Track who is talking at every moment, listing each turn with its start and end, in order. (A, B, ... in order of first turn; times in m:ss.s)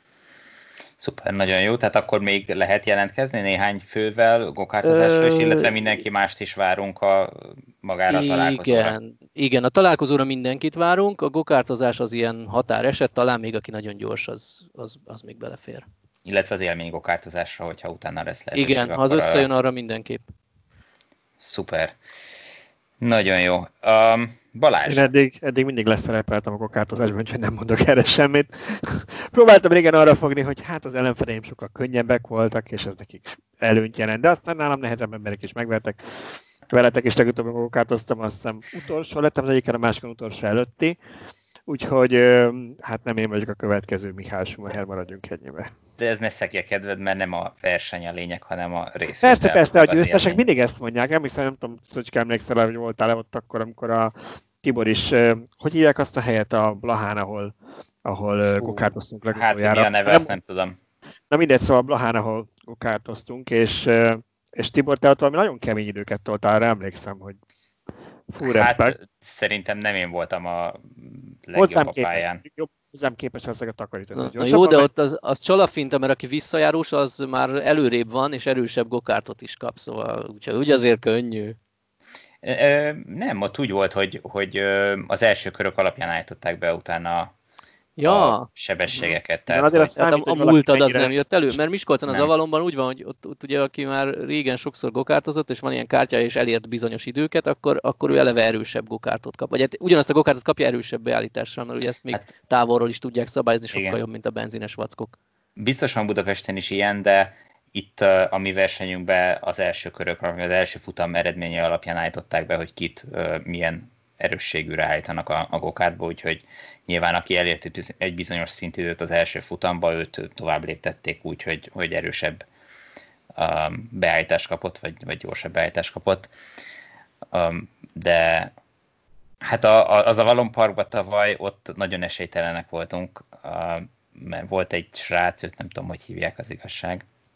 0:01.0-0:09.0 A
0:04.8-0:05.7 B
0:08.1-0:15.8 B
0:16.2-0:19.5 A
0:18.5-0:20.2 B
0:21.4-0:21.9 A
0:23.0-0:25.1 A
0:24.8-0:36.0 C
0:36.7-0:41.0 C
0:41.7-0:45.7 C
0:46.0-0:50.4 A
0:49.2-0:57.5 C
0:58.0-1:00.3 C
0:58.6-1:00.8 A
1:01.3-1:07.4 C
1:08.3-1:08.9 C
1:08.4-1:12.4 A
1:11.5-1:14.9 C
1:14.2-1:21.6 B
1:22.4-1:27.3 A
1:28.0-1:28.5 B
1:28.0-1:30.0 A
1:29.0-1:31.1 C
1:30.0-1:45.1 B
1:43.7-1:44.0 A
1:45.6-2:02.4 A
2:03.4-2:06.3 A
2:07.3-2:08.5 A
2:09.4-2:17.0 A